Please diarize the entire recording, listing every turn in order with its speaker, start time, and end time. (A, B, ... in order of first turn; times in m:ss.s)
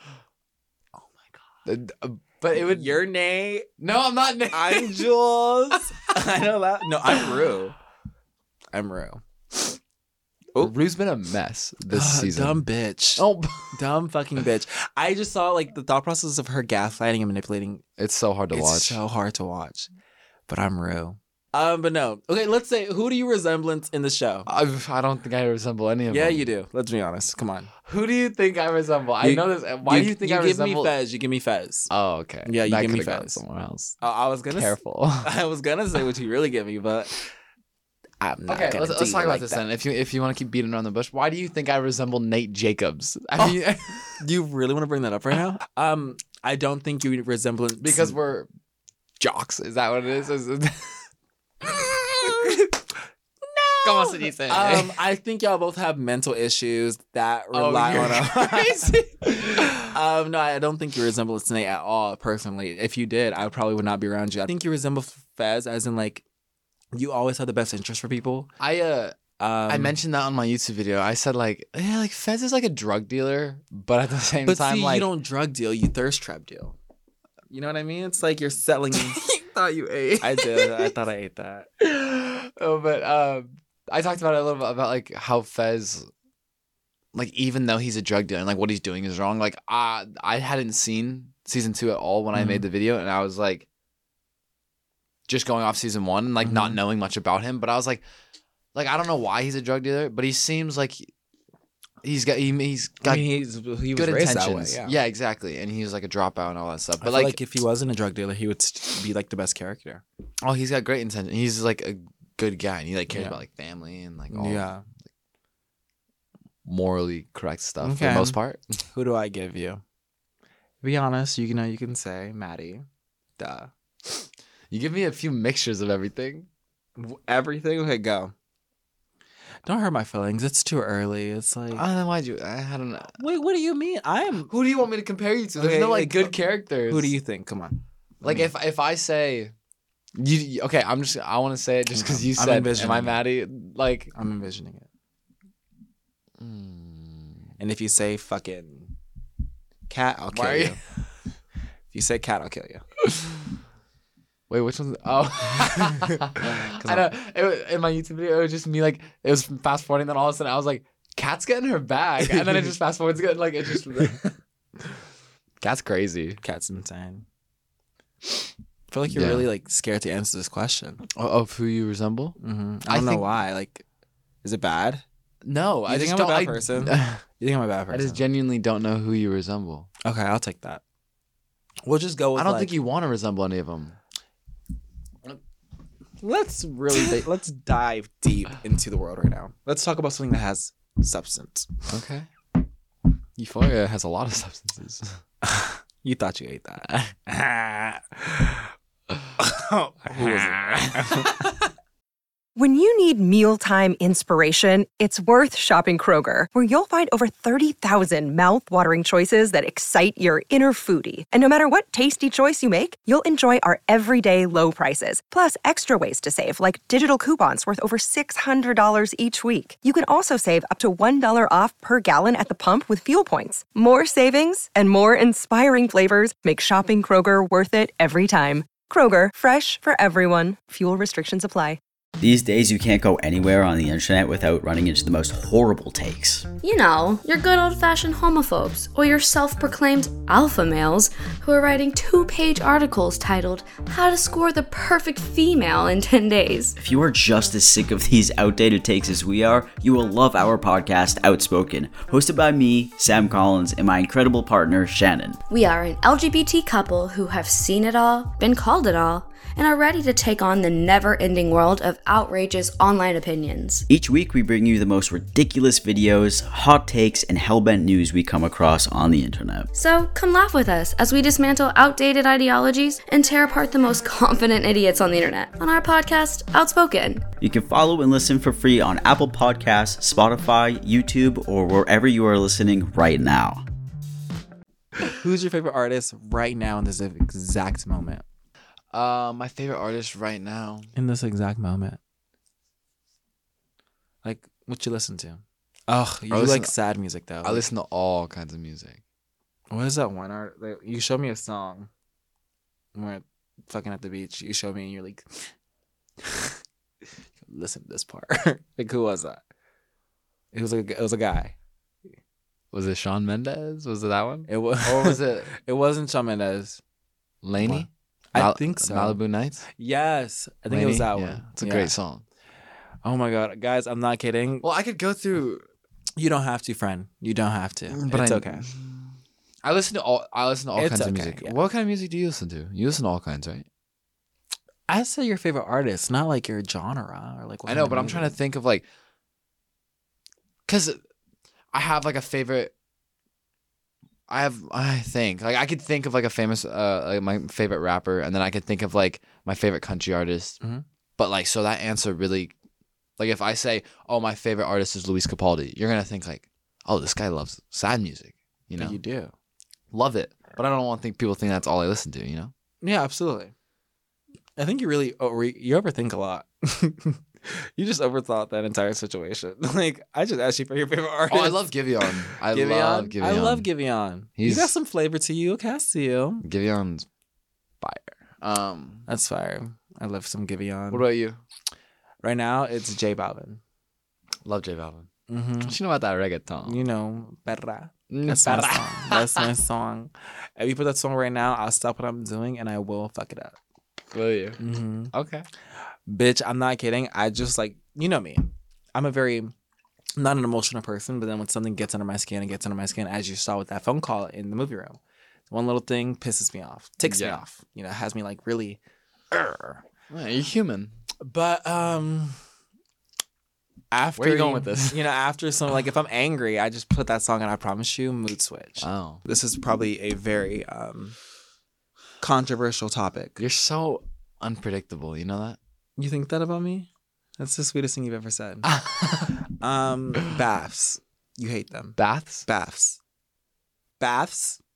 0:01.6-0:03.0 A
0:02.5-0:03.7 B
0:03.8-0:05.0 A
0:04.5-0:07.8 B
0:08.7-0:09.7 B
0:10.6-0:12.6 A
0:11.9-0:17.8 B
0:13.2-0:13.8 A
0:18.0-0:19.0 A
0:18.5-0:19.9 B
0:20.5-0:24.5 B
0:24.5-0:26.4 A
0:26.1-0:27.7 B
0:27.8-0:30.9 A
0:29.2-0:31.9 B
0:31.9-0:34.0 A
0:32.4-0:33.4 B
0:34.0-0:37.3 B
0:34.5-0:35.3 A
0:38.2-0:39.6 B
0:38.5-0:44.2 A
0:43.4-0:48.2 B
0:47.8-0:48.5 A
0:49.2-0:51.0 A
0:51.6-0:52.5 A
0:53.5-1:06.2 B
0:53.8-0:55.0 A
0:57.5-0:59.9 A
1:06.9-1:08.5 B
1:08.6-1:15.1 A
1:09.4-1:10.0 B
1:14.4-1:16.8 B
1:17.5-1:19.2 B
1:18.9-1:20.9 A
1:20.2-1:21.7 B
1:21.8-1:26.1 A
1:27.1-1:33.6 A
1:32.3-1:32.6 B
1:35.3-1:38.0 A
1:36.4-1:36.8 B
1:38.7-1:41.1 A
1:42.0-1:43.3 A
1:43.0-1:45.0 B
1:43.9-1:47.4 A
1:47.0-1:50.0 B
1:50.4-1:54.9 A
1:53.1-1:53.4 B
1:54.3-1:54.8 B
1:56.6-1:58.7 A
1:57.8-1:58.4 B
1:58.9-1:59.8 B
2:00.8-2:02.8 B
2:03.4-2:04.2 B
2:04.7-2:06.5 A
2:07.0-2:08.3 B
2:09.6-2:11.8 B
2:11.7-2:13.1 A
2:13.2-2:14.5 B
2:14.5-2:17.1 A
2:15.6-2:18.5 B
2:18.2-2:19.5 A
2:20.2-2:24.1 A
2:21.9-2:23.2 B
2:24.1-2:24.9 B
2:26.4-2:27.4 A
2:27.6-2:28.9 B
2:29.9-2:30.8 B
2:30.3-2:30.8 A
2:31.9-2:32.8 B
2:33.0-2:33.4 A
2:34.5-2:44.2 A
2:35.7-2:37.1 B
2:42.2-2:42.7 B
2:45.6-2:46.4 A
2:46.4-2:47.2 B
2:48.9-2:51.0 B
2:49.1-2:49.5 A
2:51.1-2:52.4 A
2:52.4-2:53.8 B
2:52.9-2:53.3 A
2:54.4-2:55.0 B
2:55.4-2:57.2 A
2:55.9-2:58.2 B
2:57.9-2:59.9 A
3:00.0-3:00.8 B
3:01.8-3:02.7 B
3:02.3-3:04.0 A
3:06.2-3:11.7 B
3:06.9-3:07.2 A
3:11.9-3:12.3 A
3:13.4-3:15.2 A
3:15.4-3:18.7 B
3:16.9-3:17.1 A
3:19.4-3:21.5 B
3:20.1-3:21.5 A
3:22.6-3:51.8 C
3:52.2-3:56.5 D
3:56.6-4:06.7 E
4:06.8-4:15.4 D
4:15.5-4:23.8 E
4:23.9-4:29.7 D
4:29.7-4:37.2 E
4:37.4-4:43.6 D
4:45.2-4:48.2 B
4:48.9-4:50.9 A
4:50.9-4:52.0 B
4:54.2-4:57.7 B
4:56.3-4:56.7 A
4:57.4-4:59.0 A
4:59.7-5:01.9 B
5:02.9-5:05.5 B
5:07.4-5:09.4 B
5:10.5-5:11.6 B
5:12.7-5:15.5 A
5:14.5-5:16.8 B
5:17.4-5:19.6 A
5:17.6-5:19.2 B
5:19.7-5:21.9 B
5:20.7-5:22.2 A
5:23.0-5:24.6 B
5:24.6-5:25.6 A
5:26.2-5:28.7 B
5:27.9-5:29.1 A
5:29.6-5:33.6 A
5:30.8-5:31.6 B
5:34.9-5:38.3 B
5:37.6-5:38.8 A
5:40.7-5:41.0 A
5:41.7-5:42.7 A
5:44.3-5:50.6 A
5:51.2-5:52.5 A
5:53.2-5:59.0 A
5:58.8-5:59.3 B
5:59.9-6:02.5 A
6:02.8-6:03.5 B
6:04.6-6:16.4 B
6:11.3-6:13.7 A
6:14.4-6:14.7 A
6:16.4-6:17.1 A
6:17.8-6:19.0 A
6:19.1-6:21.1 B
6:20.9-6:21.4 A
6:22.2-6:23.6 B
6:24.4-6:25.1 A
6:25.3-6:25.8 B
6:25.6-6:26.8 A
6:26.6-6:33.6 B
6:28.1-6:29.5 A
6:34.1-6:34.6 A
6:34.6-6:35.1 B
6:35.1-6:35.4 A
6:36.1-6:39.5 B
6:40.2-6:45.0 B
6:45.5-6:48.8 B
6:47.0-6:47.4 A
6:49.3-6:50.9 A
6:51.2-6:52.4 B
6:53.9-7:01.2 B
6:54.2-6:55.0 A
6:58.8-6:59.2 A
7:02.2-7:03.4 B
7:03.4-7:05.6 A
7:06.0-7:08.7 B
7:08.6-7:09.4 A
7:09.3-7:13.0 B
7:12.0-7:12.4 A
7:14.0-7:14.6 B